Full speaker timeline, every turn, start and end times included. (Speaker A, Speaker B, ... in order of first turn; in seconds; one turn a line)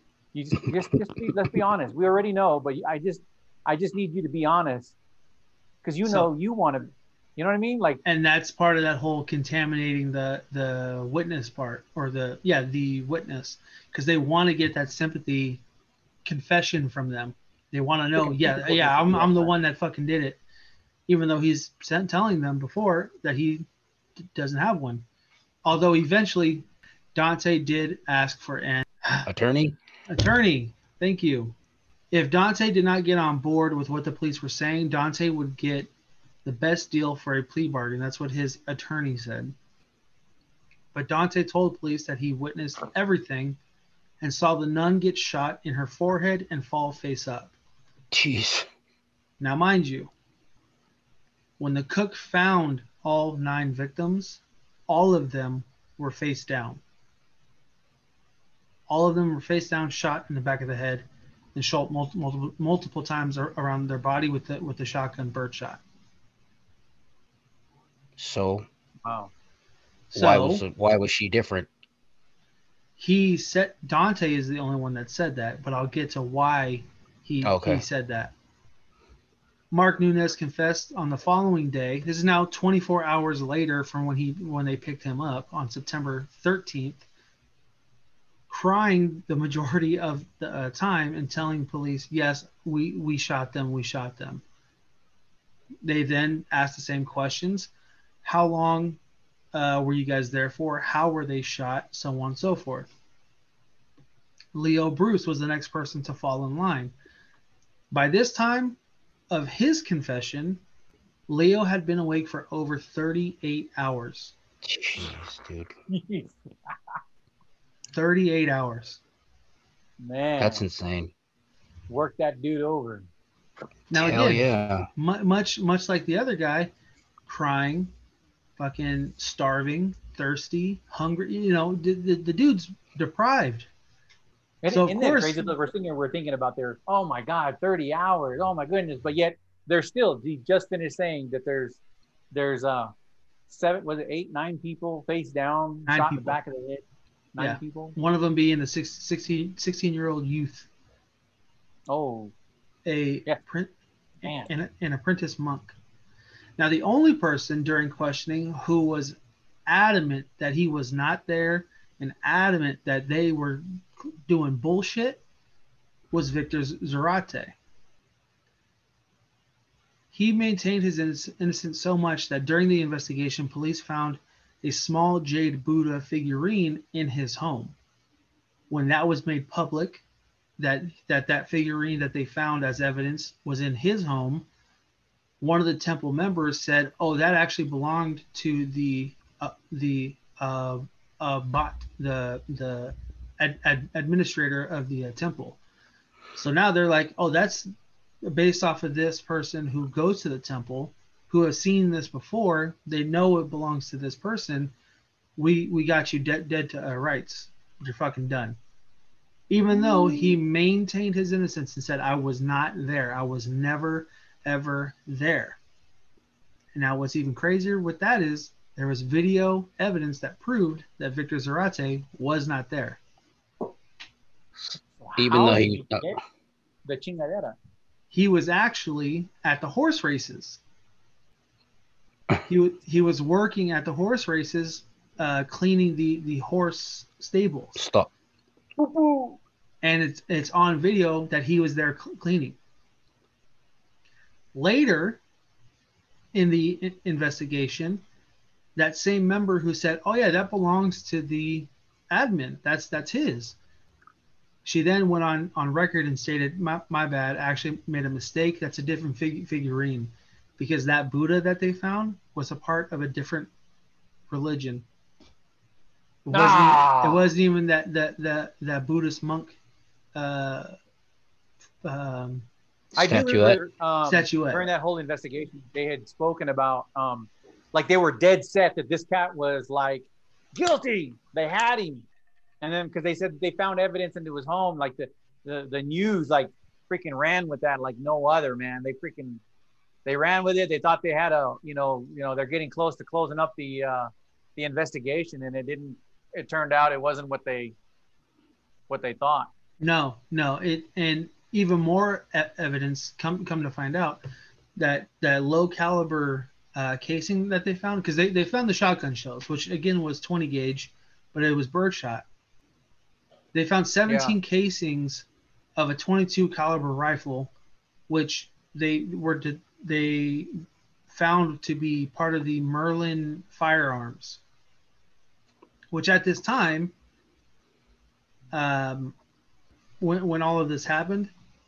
Speaker A: 0.3-5.0
Speaker A: 5.8-8.0
Speaker B: 8.1-15.6
Speaker B: 16.2-20.4
Speaker A: 18.2-19.5
Speaker B: 21.1-23.7
Speaker B: 24.2-25.1
Speaker B: 25.6-29.3
Speaker C: 29.3-29.8
Speaker B: 30.1-31.6
Speaker B: 32.1-35.9
Speaker B: 36.5-39.5
Speaker B: 40.9-43.6
Speaker B: 44.2-47.5
Speaker C: 48.1-48.7
Speaker B: 49.4-50.1
Speaker B: 51.6-56.8
Speaker B: 58.9-65.8
Speaker C: 68.2-68.7
Speaker A: 69.0-69.3
Speaker B: 70.1-70.6
Speaker C: 70.2-71.7
Speaker B: 73.0-78.3
Speaker C: 77.4-77.8
Speaker B: 79.7-87.1
Speaker B: 88.5-94.4
Speaker B: 95.8-97.7
Speaker B: 98.2-99.0
Speaker B: 99.5-102.9
Speaker B: 104.5-106.9
Speaker B: 107.9-108.8
Speaker B: 109.3-110.6
Speaker B: 111.3-114.3
Speaker C: 114.6-115.7
Speaker A: 115.9-116.3
Speaker B: 117.9-119.0
Speaker A: 120.0-120.6
Speaker C: 120.4-121.1
Speaker A: 121.9-123.1
Speaker B: 123.9-126.7
Speaker C: 123.9-124.9
Speaker B: 127.3-127.9
Speaker B: 128.6-133.7
Speaker A: 134.6-141.8
Speaker B: 134.7-135.5
Speaker A: 142.3-142.9
Speaker A: 143.5-146.8
Speaker B: 145.9-146.4
Speaker A: 147.3-147.9
Speaker B: 147.4-150.7
Speaker A: 151.9-152.3
Speaker B: 152.9-153.7
Speaker A: 154.2-154.5
Speaker B: 154.2-155.8
Speaker B: 156.6-165.2
Speaker B: 166.1-167.6
Speaker B: 170.1-177.8
Speaker B: 178.7-180.0
Speaker B: 180.6-184.5
Speaker B: 185.4-195.6
Speaker B: 196.3-197.7
Speaker B: 198.2-204.7
Speaker B: 205.4-208.6
Speaker B: 209.5-215.6
Speaker B: 216.8-223.0
Speaker A: 225.0-226.2
Speaker C: 225.2-226.1
Speaker A: 226.9-227.6
Speaker B: 228.1-230.6
Speaker B: 232.5-237.8
Speaker C: 237.8-238.1
Speaker A: 238.8-239.4
Speaker B: 239.8-242.6
Speaker B: 244.5-245.2
Speaker B: 246.3-248.0
Speaker B: 248.8-253.6
Speaker B: 254.7-263.5
Speaker B: 264.3-264.9
Speaker B: 266.3-269.6
Speaker A: 266.3-267.2
Speaker B: 270.1-270.8
Speaker B: 271.8-272.5
Speaker C: 272.9-273.6
Speaker A: 273.0-282.1
Speaker B: 274.1-274.7
Speaker A: 282.6-289.4
Speaker A: 290.1-297.7
Speaker A: 298.9-299.5
Speaker B: 299.8-304.2
Speaker B: 304.8-312.2
Speaker B: 313.5-315.3
Speaker A: 314.1-314.4
Speaker B: 315.8-317.5
Speaker B: 318.1-320.5
Speaker B: 321.1-324.4
Speaker B: 325.9-326.9
Speaker B: 328.5-329.1
Speaker B: 330.0-331.3